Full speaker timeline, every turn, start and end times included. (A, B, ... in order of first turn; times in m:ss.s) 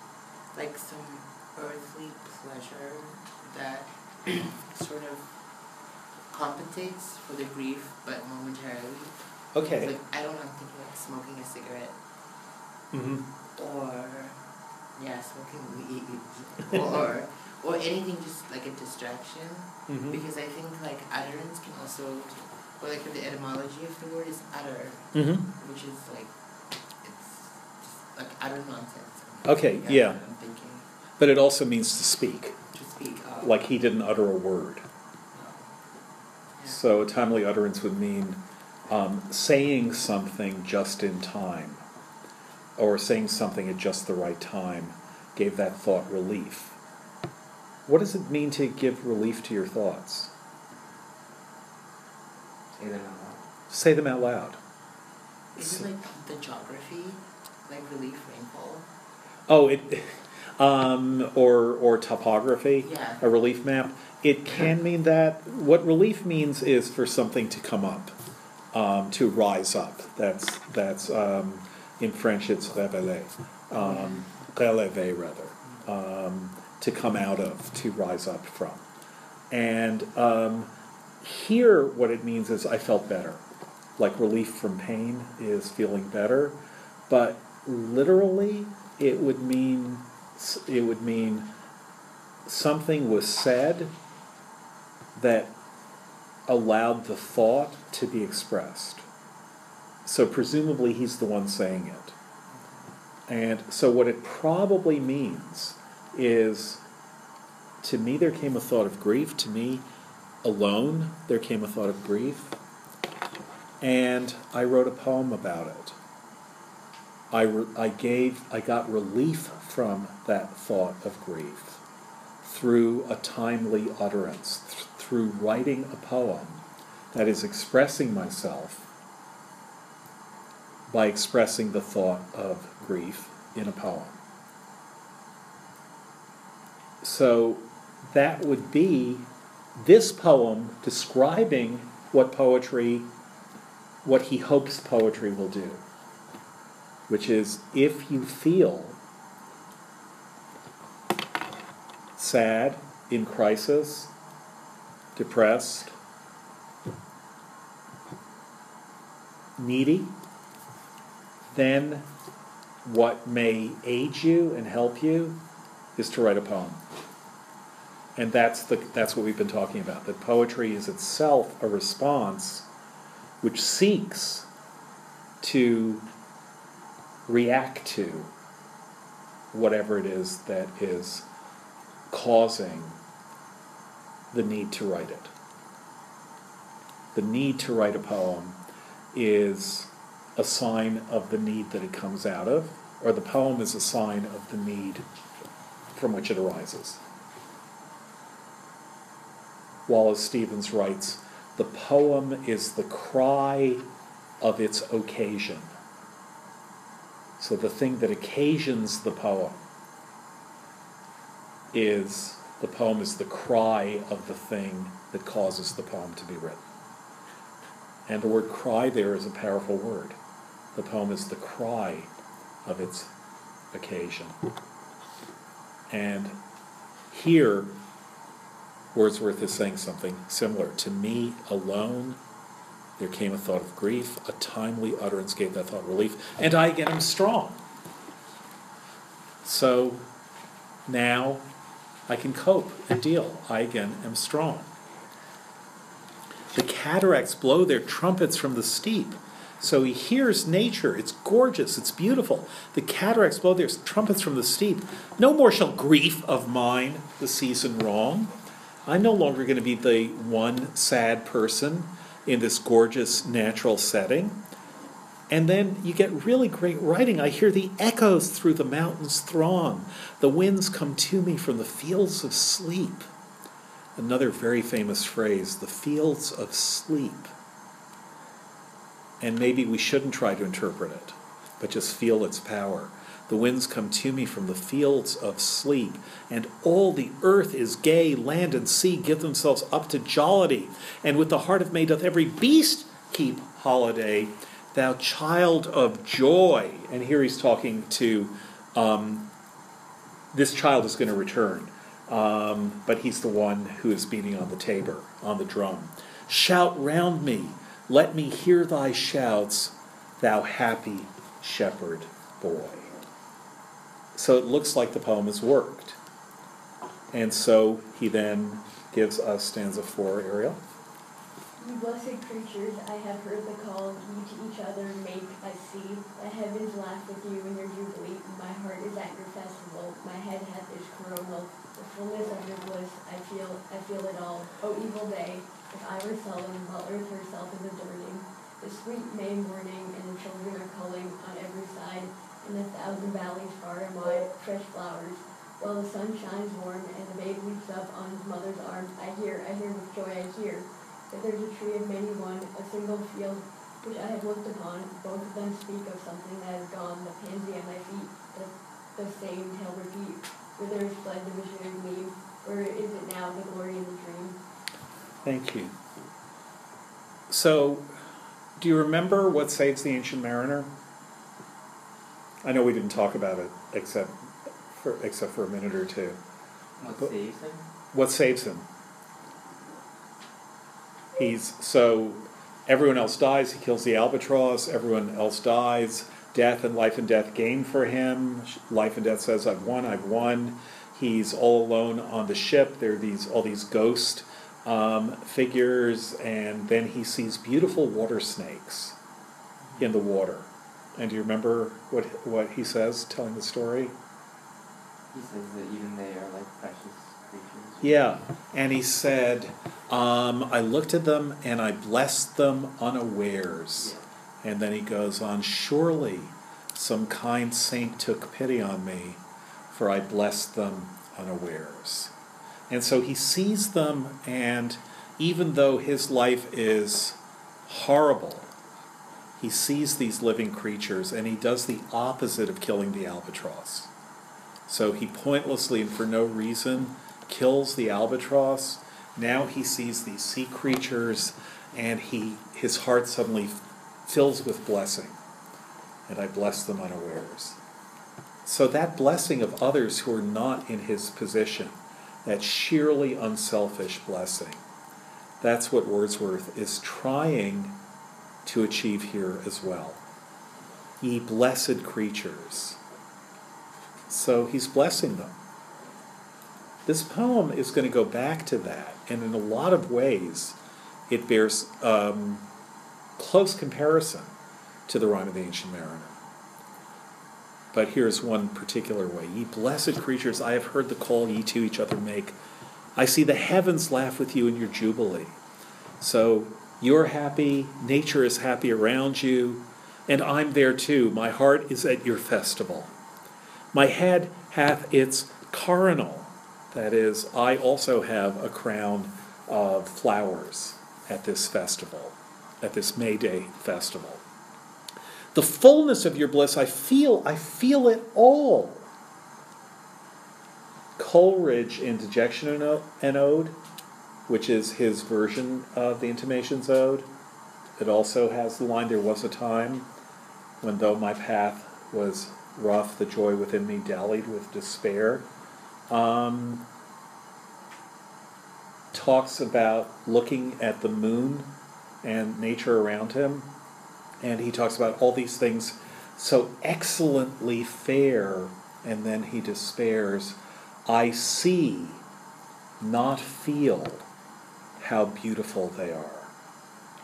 0:00.5-0:05.3 A
0:06.3-0:09.1 A
0:09.5-0:09.9 B
0:09.7-0:12.0 A
0:12.9-0:13.2 B
0:13.6-0:14.4 A
0:15.0-0:26.3 A
0:19.9-0:20.2 B
0:25.1-0:25.5 B
0:27.0-0:30.9 A
0:29.4-0:30.2 B
0:31.2-0:32.6 B
0:32.7-0:33.6 A
0:33.4-0:34.8 B
0:35.3-0:35.7 A
0:36.6-0:41.8 B
0:42.8-0:46.8 B
0:47.8-0:50.3 B
0:52.8-0:53.4 C
0:53.7-0:54.6 B
0:55.6-0:55.8 B
0:55.6-0:58.9 A
0:59.5-1:08.2 B
1:02.8-1:03.2 A
1:08.7-1:18.8 B
1:13.8-1:14.2 A
1:19.5-1:20.7 B
1:21.2-1:23.4 B
1:24.0-1:26.6 B
1:27.1-1:31.5 B
1:32.4-1:33.9 B
1:35.2-1:35.5 B
1:36.5-1:39.0 B
1:40.0-1:42.1 B
1:43.3-1:46.8 B
1:47.8-1:49.8 B
1:50.4-1:52.5 B
1:53.8-1:56.0 B
1:57.3-2:01.8 B
2:02.4-2:06.6 B
2:07.1-2:08.9 B
2:10.9-2:14.2 B
2:17.0-2:23.1 B
2:24.0-2:25.8 B
2:27.1-2:29.0 B
2:32.2-2:34.1 B
2:35.2-2:35.9 B
2:39.6-2:40.1 B
2:41.5-2:42.0 B
2:42.8-2:45.4 B
2:46.0-2:46.8 B
2:48.2-2:52.7 B
2:53.4-2:54.5 B
2:55.4-2:56.0 B
2:57.3-2:58.3 B
2:59.5-3:01.2 B
3:02.1-3:03.0 B
3:04.3-3:05.3 B
3:07.1-3:08.6 B
3:09.1-3:15.0 B
3:15.9-3:17.0 B
3:19.9-3:23.8 B
3:24.4-3:25.7 B
3:27.4-3:29.6 B
3:31.7-3:36.6 B
3:38.1-3:40.2 B
3:40.7-3:42.1 B
3:42.6-3:43.1 B
3:43.7-3:44.4 B
3:45.9-3:46.4 B
3:47.1-3:47.7 B
3:48.9-3:52.2 B
3:53.0-3:57.6 B
3:59.4-4:00.0 B
4:00.9-4:01.4 B
4:02.1-4:04.7 B
4:06.5-4:18.3 B
4:18.8-4:24.4 B
4:25.3-4:33.1 B
4:34.0-4:37.3 B
4:39.2-4:59.3 B
5:00.3-5:12.9 B
5:14.1-5:16.0 B
5:17.1-5:20.6 B
5:21.6-6:04.4 D
6:05.2-6:05.7 B
6:07.3-6:07.9 B
6:08.6-6:10.7 B
6:12.4-6:14.1 B
6:14.8-6:16.2 B
6:16.8-6:17.6 C
6:17.9-6:18.6 B
6:21.2-6:39.0 B
6:39.8-6:43.9 B
6:45.1-6:48.0 C
6:47.8-6:53.9 B
6:54.4-6:59.2 B
6:59.7-7:02.1 B
7:02.7-7:08.5 B
7:09.4-7:13.9 B
7:14.7-7:25.2 B
7:26.1-7:27.6 B
7:28.4-7:34.6 B
7:35.4-7:37.8 B
7:38.4-7:40.0 B
7:41.0-7:42.8 B
7:44.1-7:45.3 B
7:46.8-7:50.6 B
7:51.1-7:52.4 B
7:53.2-7:54.3 B
7:54.9-7:56.2 B
7:57.7-8:02.4 B
8:03.0-8:05.4 B
8:06.0-8:12.9 B
8:13.7-8:24.2 B
8:25.3-8:28.8 B
8:31.0-8:33.5 B
8:34.3-8:37.1 B
8:37.8-8:39.9 B
8:40.6-8:45.2 B
8:45.9-8:46.6 B
8:48.9-8:51.5 B
8:52.0-8:53.5 B
8:54.2-9:02.0 B
9:02.8-9:04.0 B
9:04.8-9:06.3 B